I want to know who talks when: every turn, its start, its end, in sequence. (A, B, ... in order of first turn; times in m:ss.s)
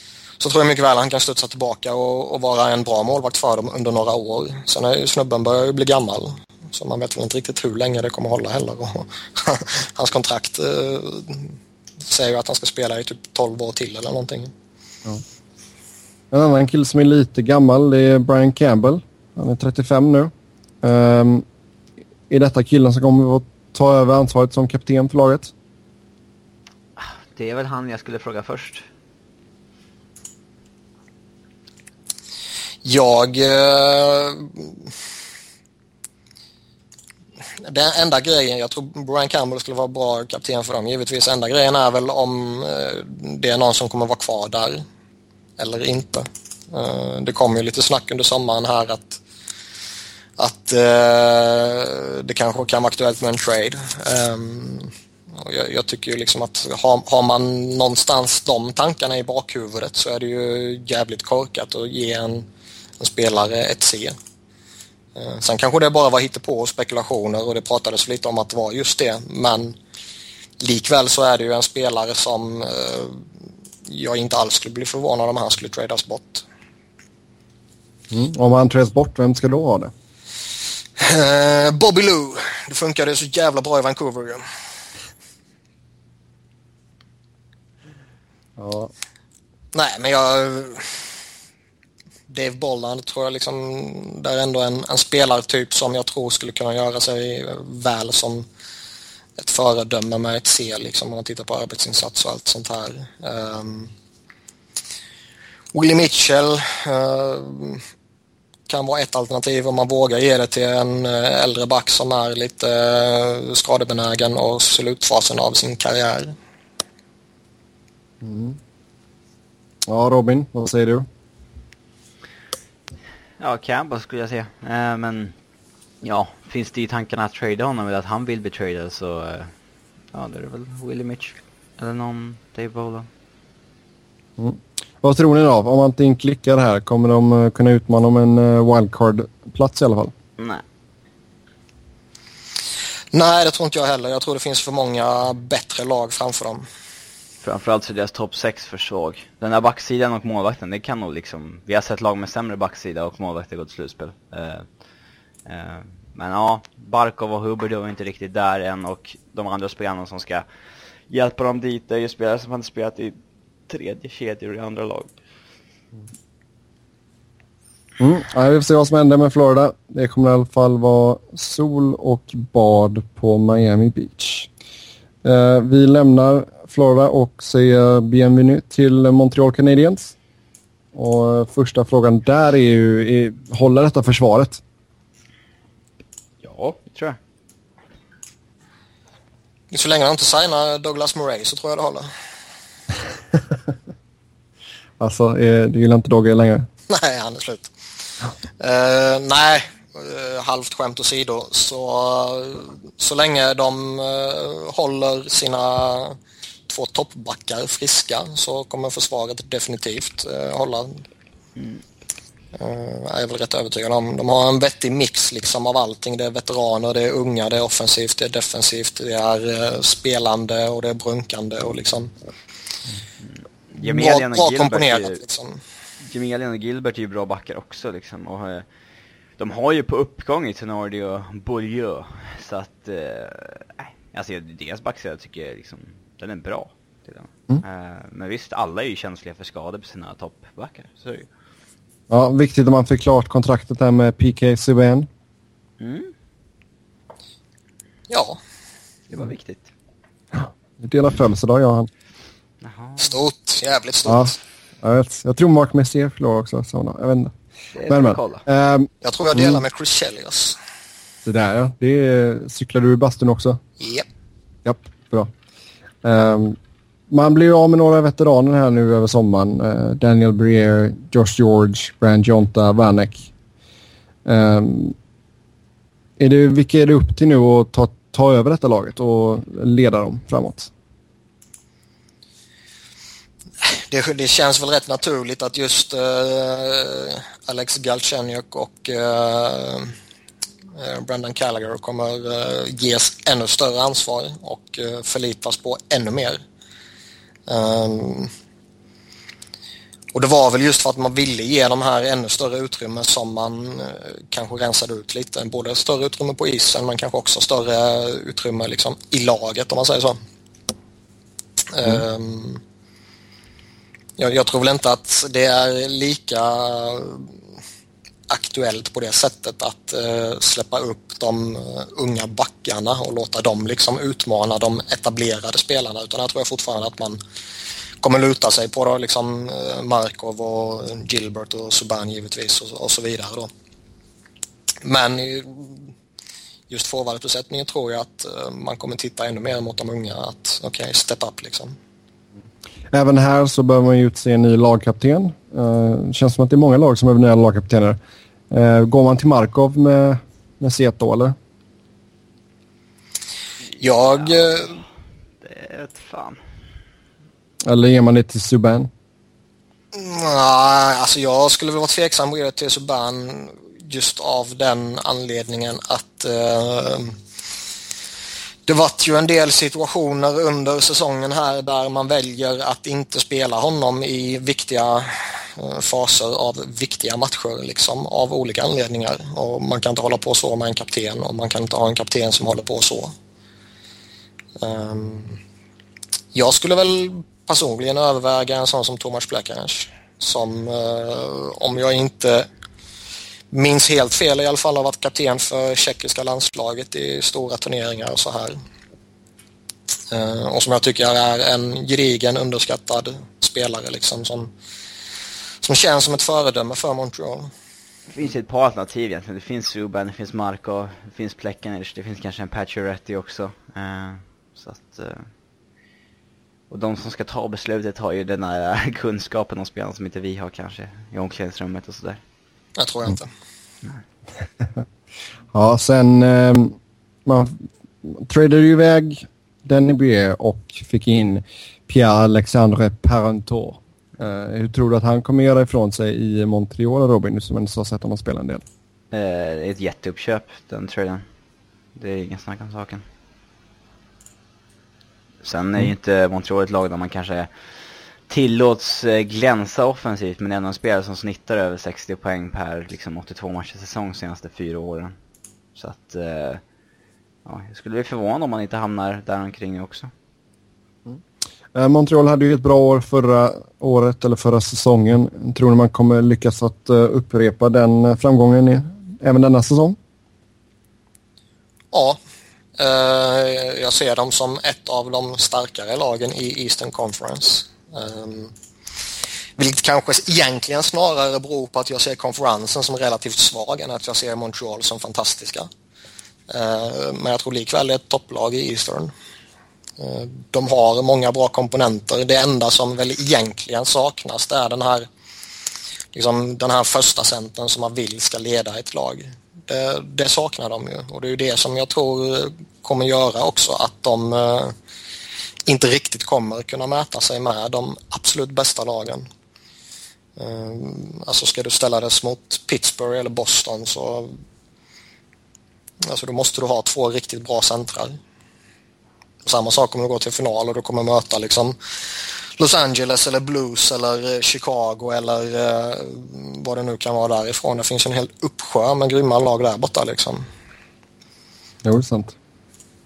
0:00.4-0:14.5 A
0:16.3-0:21.4 B
0:22.3-0:25.5 B
0:27.0-0:28.8 C
0:32.8-0:34.9 A
0:37.6-0:44.8 A
0:45.6-0:49.2 A
0:50.4-1:02.5 A
1:03.0-1:04.1 A
1:05.1-1:09.8 A
1:10.6-1:13.2 A
1:13.8-1:16.4 A
1:18.1-1:19.9 B
1:21.0-1:24.4 A
1:28.6-1:28.9 B
1:29.7-1:31.2 A
1:32.3-1:38.5 A
1:39.4-1:43.9 A
1:45.7-1:47.8 A
1:48.7-1:56.3 A
1:58.2-1:58.6 B
1:59.9-2:01.1 B
2:03.4-2:05.3 C
2:06.0-2:09.5 C
2:10.1-2:13.1 C
2:14.4-2:20.1 B
2:20.4-2:20.6 C
2:23.1-2:26.6 A
2:27.4-2:34.7 C
2:35.4-2:40.4 C
2:41.1-2:43.2 C
2:43.7-2:45.1 C
2:48.0-2:54.5 B
2:55.2-3:00.1 B
3:00.9-3:04.6 B
3:06.4-3:07.2 C
3:09.7-3:12.1 A
3:15.0-3:16.7 B
3:16.9-3:17.7 A
3:18.6-3:31.0 A
3:32.5-3:42.1 A
3:43.2-3:45.2 C
3:43.8-3:45.6 A
3:46.0-3:48.6 C
3:49.4-4:01.3 C
4:02.1-4:05.1 B
4:05.8-4:06.1 C
4:08.1-4:08.4 A
4:09.1-4:09.7 C
4:10.3-4:11.9 B
4:12.6-4:13.1 C
4:13.0-4:14.4 A
4:14.0-4:17.3 B
4:17.7-4:18.4 C
4:17.9-4:19.6 B
4:19.0-4:20.6 A
4:21.2-4:23.6 B
4:23.8-4:24.1 A
4:24.6-4:25.3 B
4:26.0-4:26.6 B
4:27.1-4:33.3 B
4:34.2-4:35.0 B
4:36.2-4:40.7 B
4:43.6-4:49.9 A
4:50.7-4:56.4 A
4:57.5-4:58.3 A
5:00.1-5:10.2 A
5:11.7-5:12.6 A
5:14.2-5:17.3 A
5:18.3-5:27.2 A
5:28.0-5:33.5 A
5:34.8-5:35.9 A
5:36.7-5:41.8 A
5:42.9-5:48.0 B
5:48.5-5:51.3 B
5:53.7-5:54.8 C
5:53.8-5:54.8 A
5:55.4-5:56.4 C
5:57.6-5:58.9 B
5:59.9-6:07.2 A
6:08.6-6:23.1 A
6:24.6-6:25.4 A
6:26.3-6:32.5 A
6:33.5-6:38.6 A
6:40.1-6:44.5 A
6:45.6-6:47.5 A
6:48.1-6:55.3 C
6:56.7-7:02.2 C
7:02.8-7:03.3 A
7:05.5-7:18.6 B
7:19.1-7:21.2 C
7:22.0-7:23.0 C
7:25.4-7:27.5 C
7:28.3-7:35.1 C
7:35.8-7:36.6 C
7:37.4-7:40.1 C
7:41.7-7:50.0 B
7:51.9-7:52.2 A
7:52.8-7:58.5 A
7:59.6-8:05.7 A
8:06.5-8:09.1 A
8:10.0-8:15.1 A
8:16.1-8:24.7 A
8:25.7-8:29.3 A
8:30.4-8:34.3 A
8:36.0-8:38.2 A
8:39.4-8:50.4 A
8:51.8-8:52.4 B